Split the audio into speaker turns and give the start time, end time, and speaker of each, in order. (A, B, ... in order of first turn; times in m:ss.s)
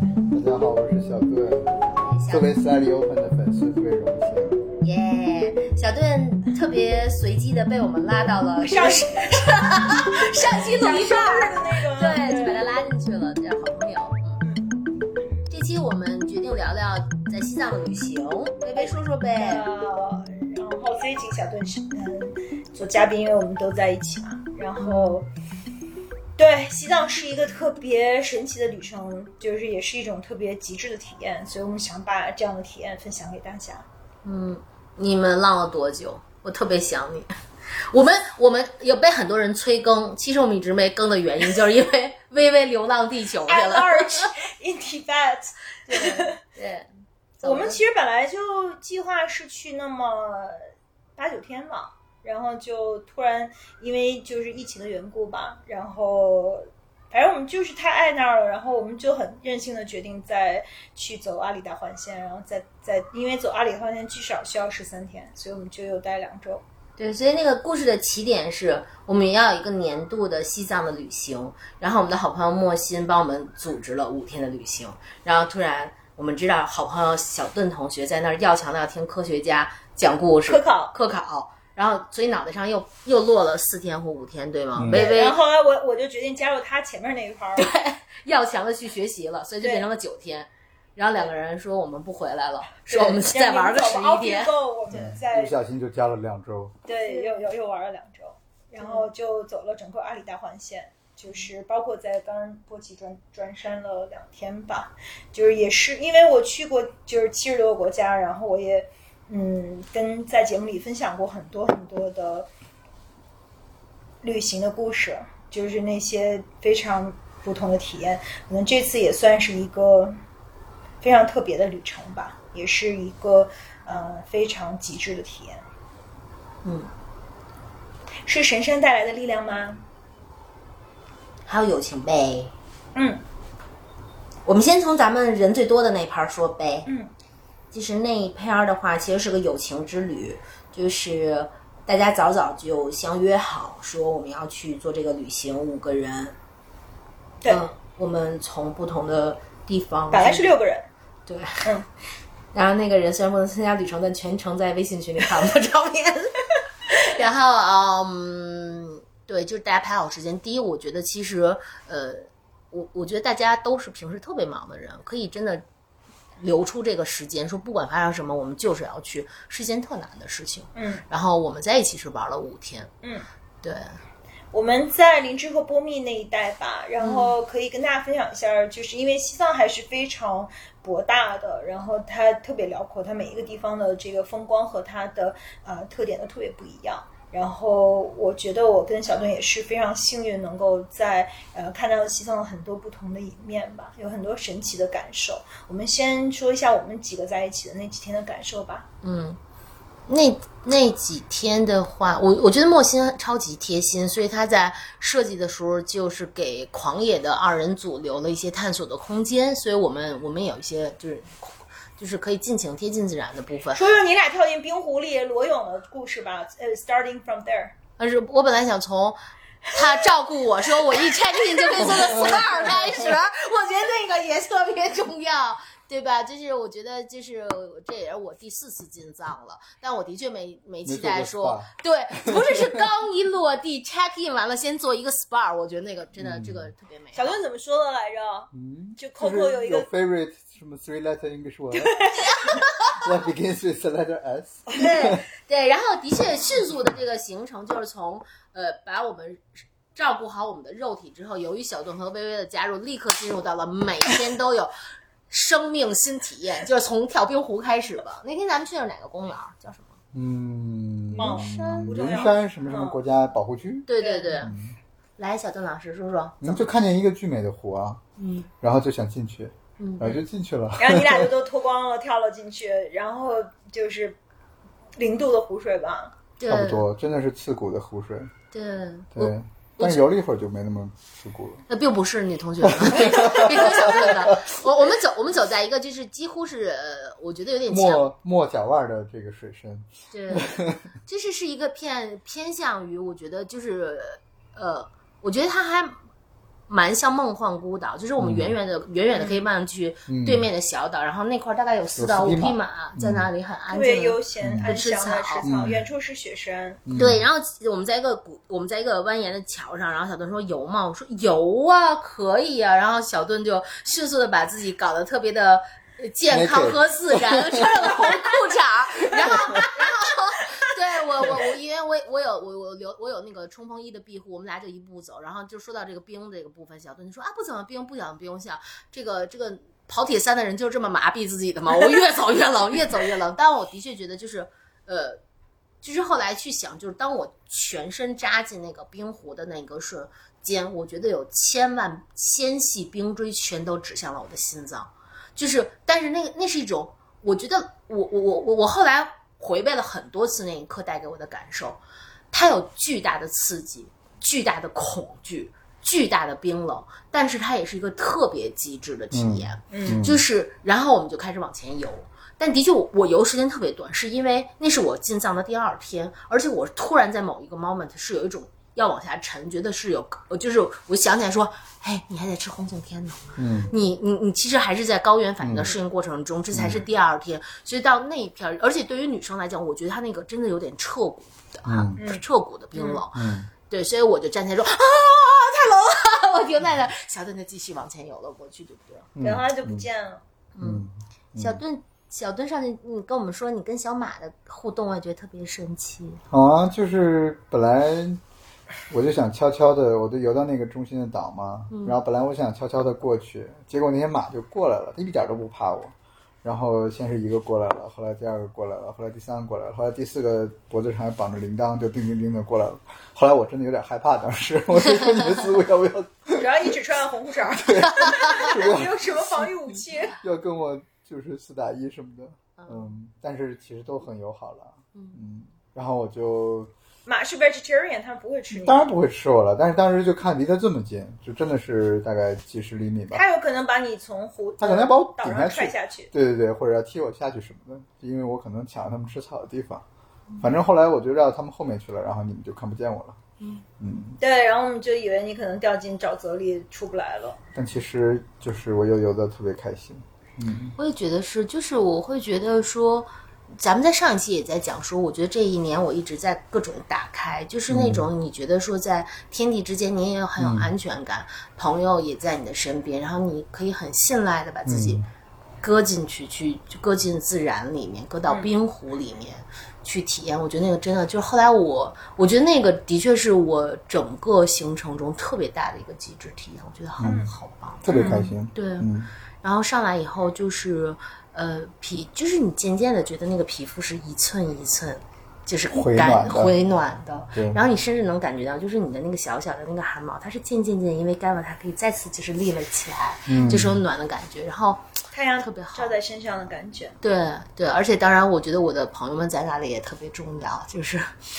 0:00.3-0:04.6 A
0:01.9-0:02.4 B
0:04.8-0:14.4 B
0:08.6-0:09.9 C
0:10.5-0:12.7 C
0:15.5-0:19.6 B
0:18.8-0:25.3 C
0:24.8-0:25.2 B
0:26.4-0:33.8 C
0:34.2-0:44.3 B
0:43.5-0:46.4 C
0:45.9-0:46.9 B
0:47.4-0:47.8 B
0:47.4-0:50.6 C
0:51.2-1:06.6 C
1:07.0-1:25.4 B
1:20.4-1:20.9 C
1:24.7-1:25.1 A
1:24.9-1:27.6 C
1:27.6-1:34.5 B
1:32.8-1:35.5 C
1:34.9-1:36.8 A
1:36.8-1:52.5 C
1:37.1-1:37.4 B
1:38.8-1:39.1 B
1:54.2-2:00.2 C
2:01.0-2:05.6 C
2:06.6-2:06.9 B
2:08.2-2:09.8 C
2:11.4-2:12.5 B
2:12.9-2:13.2 C
2:14.4-2:16.9 B
2:17.7-2:26.3 B
2:27.5-2:30.5 B
2:30.1-2:30.9 C
2:31.3-2:31.7 B
2:32.5-2:36.3 B
2:36.9-2:45.6 B
2:46.4-2:52.9 B
2:50.8-2:51.0 C
2:53.6-2:54.0 B
2:54.5-3:18.9 C
2:57.0-2:57.3 B
3:19.0-3:19.4 B
3:20.1-3:33.8 B
3:33.7-3:37.7 C
3:38.0-3:57.4 B
3:41.6-3:41.9 C
3:50.8-3:52.8 A
3:56.2-3:56.7 A
3:57.1-3:59.9 C
3:58.5-4:02.3 A
4:01.7-4:02.4 C
4:02.3-4:03.1 B
4:02.9-4:05.2 A
4:04.7-4:09.4 B
4:09.9-4:14.7 B
4:15.3-4:20.0 B
4:20.1-4:23.9 A
4:21.2-4:23.0 C
4:21.2-4:21.5 B
4:23.9-4:24.5 B
4:24.0-4:24.4 C
4:24.4-4:24.7 A
4:25.2-4:26.7 B
4:26.4-4:28.0 A
4:28.2-4:28.5 B
4:28.6-4:31.3 A
4:29.8-4:30.2 B
4:30.8-4:34.2 C
4:35.0-4:36.1 C
4:36.4-4:36.8 B
4:36.5-4:38.3 A
4:38.5-4:40.0 B
4:39.1-4:41.6 A
4:41.7-4:48.1 B
4:42.6-4:44.6 A
4:47.7-4:50.9 A
4:50.1-4:50.5 B
4:51.0-4:56.0 B
4:56.7-5:05.4 B
4:58.2-4:58.5 A
4:59.1-4:59.4 C
5:00.1-5:00.5 A
5:02.0-5:03.3 A
5:03.7-5:06.8 C
5:04.4-5:04.7 A
5:05.4-5:05.8 A
5:06.8-5:07.2 A
5:06.9-5:35.2 B
5:16.3-5:17.9 A
5:19.2-5:19.7 A
5:35.8-6:29.1 B
5:59.1-6:00.2 A
5:59.7-6:00.0 C
6:13.4-6:13.7 A
6:15.4-6:15.8 A
6:16.5-6:16.8 A
6:21.7-6:22.0 A
6:22.0-6:22.2 C
6:22.7-6:23.0 C
6:23.1-6:23.5 A
6:29.1-6:29.8 A
6:29.2-6:30.2 C
6:30.5-6:36.2 B
6:30.6-6:31.6 A
6:36.3-6:38.2 A
6:38.9-6:56.7 A
6:41.7-6:42.0 B
6:56.3-7:00.2 C
6:57.6-6:59.5 A
7:00.2-7:06.7 A
7:02.6-7:02.9 B
7:07.0-7:08.8 C
7:08.5-7:13.2 A
7:13.1-7:16.1 C
7:14.6-7:19.8 A
7:20.4-7:23.2 A
7:23.4-7:23.6 B
7:23.8-7:24.2 A
7:24.2-7:27.4 C
7:27.5-7:30.8 A
7:30.8-7:45.0 B
7:37.7-7:38.1 A
7:40.4-7:40.7 A
7:44.6-7:45.0 A
7:45.6-7:58.9 B
7:57.0-7:57.2 A
7:57.0-7:57.3 C
7:57.8-7:59.1 A
7:57.9-7:58.2 C
7:59.4-8:15.9 B
8:05.7-8:06.6 A
8:07.3-8:07.6 A
8:13.3-8:13.8 A
8:15.1-8:17.0 C
8:17.0-8:21.2 B